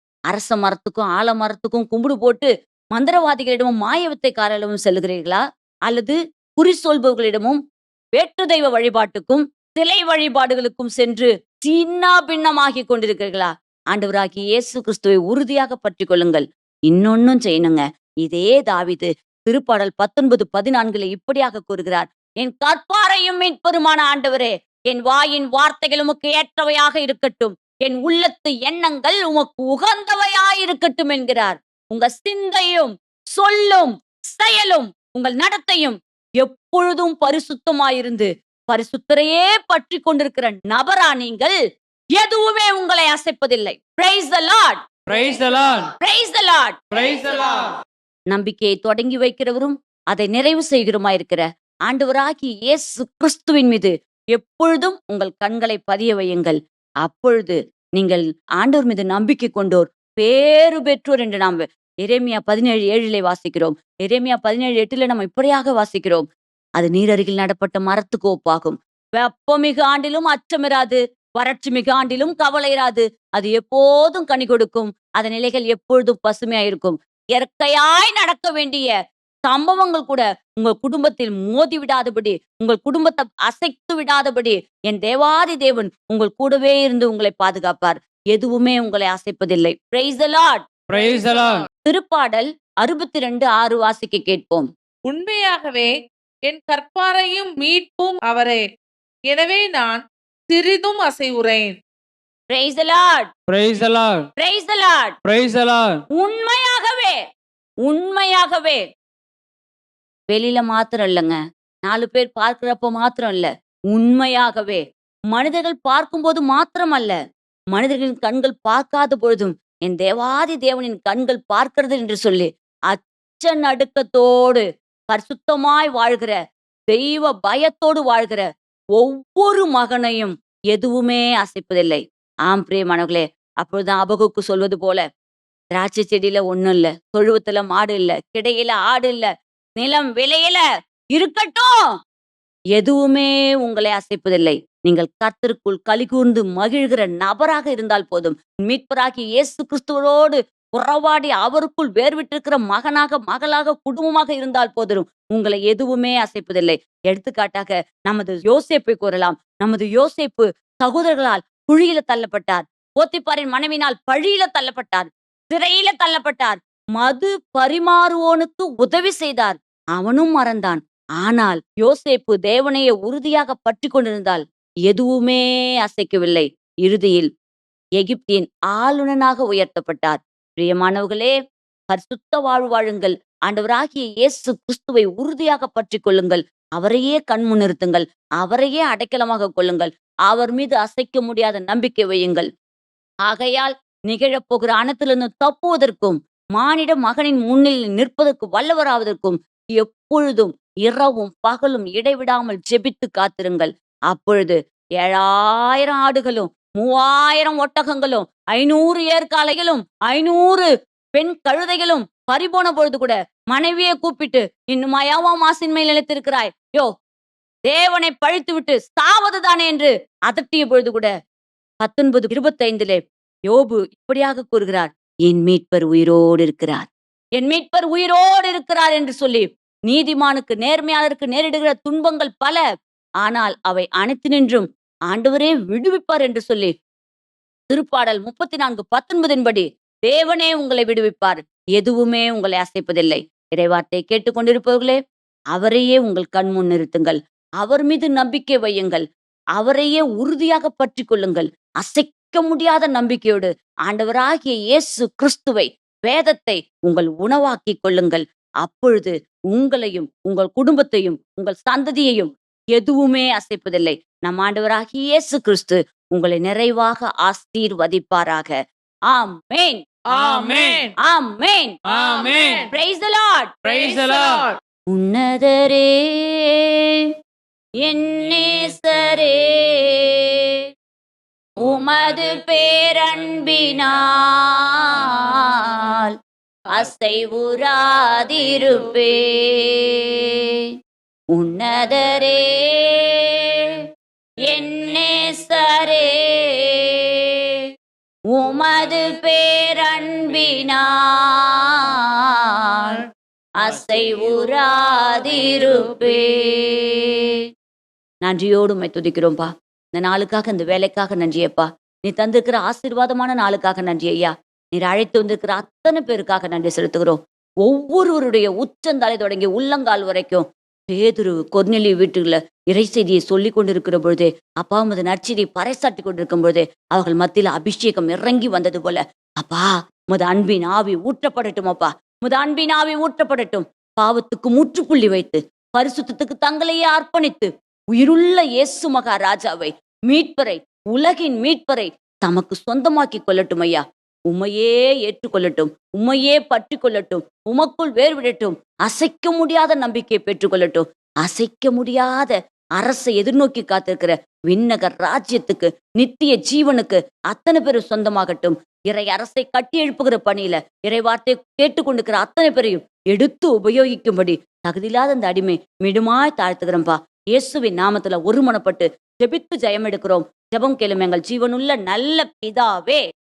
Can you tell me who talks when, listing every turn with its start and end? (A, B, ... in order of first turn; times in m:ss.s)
0:00.3-0:07.6 A
0:08.2-0:41.5 A
0:42.2-0:44.8 A
0:45.1-0:45.9 B
0:46.0-0:46.8 A
0:46.9-0:47.6 B
0:48.3-1:06.2 A
1:06.8-1:18.9 A
1:19.5-1:30.6 A
1:30.9-1:31.6 B
1:31.8-1:34.7 A
1:35.0-1:35.9 C
1:36.5-1:38.6 C
1:39.3-1:41.8 C
1:42.5-1:43.3 A
1:43.5-1:44.2 B
1:44.4-1:45.1 A
1:45.2-1:45.9 B
1:46.1-1:47.1 A
1:47.8-1:48.8 A
1:50.3-1:54.8 A
1:55.3-1:57.1 A
1:57.7-2:06.3 A
2:06.9-2:08.4 A
2:09.0-2:15.0 A
2:15.8-2:19.3 A
2:19.8-2:20.6 A
2:21.1-2:21.7 A
2:22.8-2:57.3 A
2:58.0-3:01.3 A
3:01.9-3:12.5 A
3:13.3-3:36.9 A
3:37.7-3:41.1 A
3:41.8-3:52.6 A
3:53.2-3:56.7 A
3:57.7-4:05.0 A
4:05.5-4:09.0 A
4:09.6-4:28.5 A
4:29.1-4:29.8 A
4:30.1-4:30.9 C
4:30.1-4:30.8 B
4:31.1-4:31.7 A
4:31.9-4:32.7 B
4:32.1-4:32.6 C
4:32.7-4:33.5 A
4:33.6-4:34.4 B
4:33.8-4:34.6 C
4:34.9-4:37.1 A
4:37.8-4:40.6 A
4:41.6-4:46.1 A
4:46.7-4:50.6 A
4:51.3-4:53.8 A
4:54.4-4:57.6 A
4:58.3-5:03.0 A
5:03.6-5:07.4 A
5:08.2-6:13.0 A